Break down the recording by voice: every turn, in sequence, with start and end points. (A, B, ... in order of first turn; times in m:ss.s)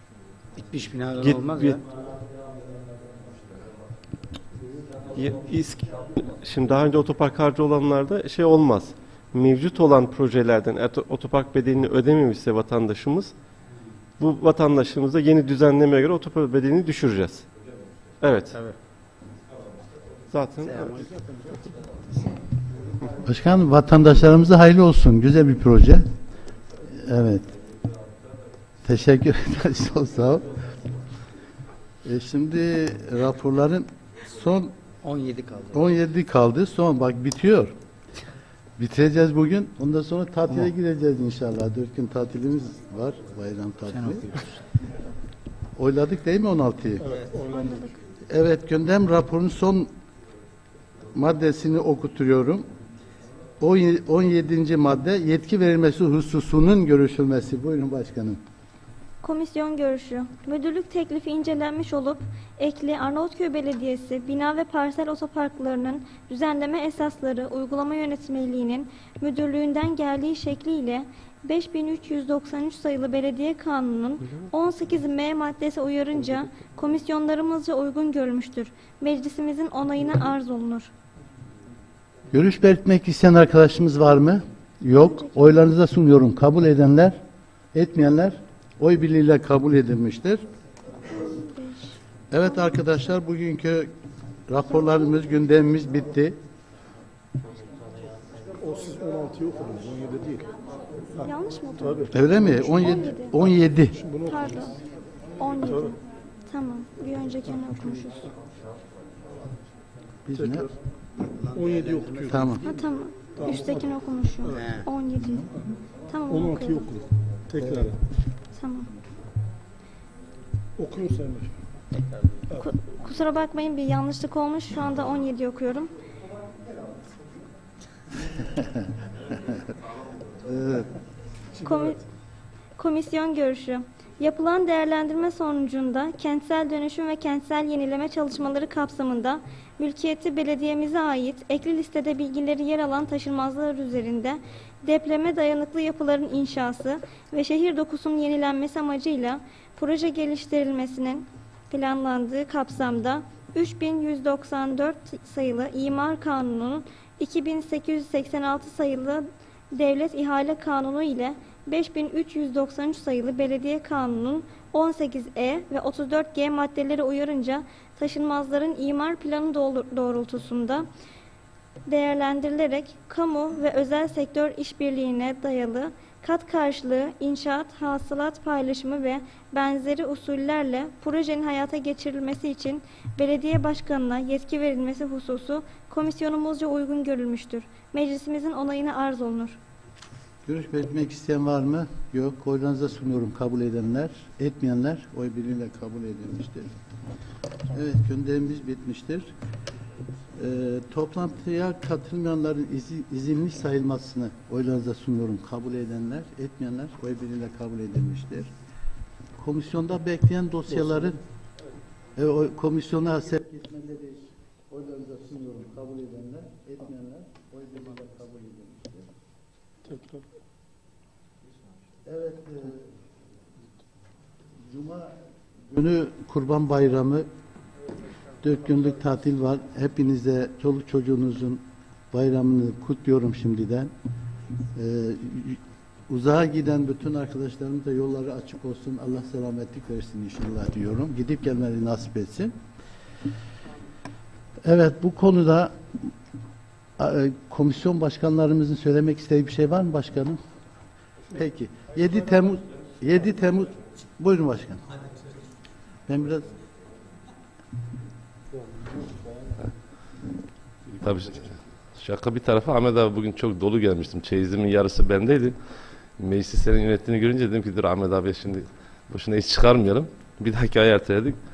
0:00.6-0:01.8 A
0:01.2-0:01.8 B
0:05.1-0:13.3 B
0:14.2-0:17.4 B
0:18.2-0:18.6 B
0:20.3-0:21.0 B
0:23.1-0:26.1 C
0:26.9-0:27.5 C
0:28.8-0:30.6 C
0:32.0-0:34.7 C
0:35.0-0:35.8 A
0:35.7-0:37.7 C
0:38.8-0:44.3 C
0:45.8-0:47.1 C
0:47.1-0:47.9 D
0:47.5-0:47.9 E
0:48.3-0:49.9 C
0:51.1-0:52.6 C
0:53.6-0:58.4 C
0:59.2-1:20.9 E
1:22.3-1:27.2 C
1:25.0-1:25.4 E
1:27.7-1:30.4 C
1:31.1-1:32.0 E
1:32.3-1:33.9 C
1:34.5-1:36.4 C
1:38.6-1:40.5 D
1:41.2-1:42.1 D
1:41.2-1:43.4 E
1:42.1-1:44.0 C
1:43.9-1:44.7 D
1:44.2-1:44.8 E
1:45.4-1:48.3 E
1:45.4-1:45.9 D
1:50.2-1:50.7 C
1:50.3-1:50.7 D
1:51.5-1:52.6 D
1:52.2-1:52.6 C
1:52.6-1:55.6 E
1:53.3-1:54.9 D
1:55.4-1:55.7 D
1:56.1-1:57.0 E
1:56.3-1:58.0 D
1:57.6-1:57.8 C
1:58.5-1:58.9 E
2:00.8-2:01.6 D
2:02.6-2:05.9 E
2:08.5-2:09.6 C
2:10.4-2:10.9 C
2:11.6-2:12.0 D
2:11.6-2:12.0 E
2:12.8-2:50.9 E
2:51.9-3:09.6 E
3:10.4-3:16.8 C
3:17.7-3:19.3 C
3:20.3-3:28.5 C
3:29.4-3:31.2 C
3:32.1-3:39.1 C
3:39.9-3:40.2 D
3:42.0-3:42.9 C
3:44.7-3:45.1 C
3:45.7-3:47.3 C
3:48.4-3:53.9 C
3:54.7-4:02.6 C
4:04.6-4:05.8 C
4:07.0-4:10.4 C
4:11.3-4:14.8 C
4:16.1-4:16.5 C
4:21.0-4:25.6 F
4:26.2-4:31.4 F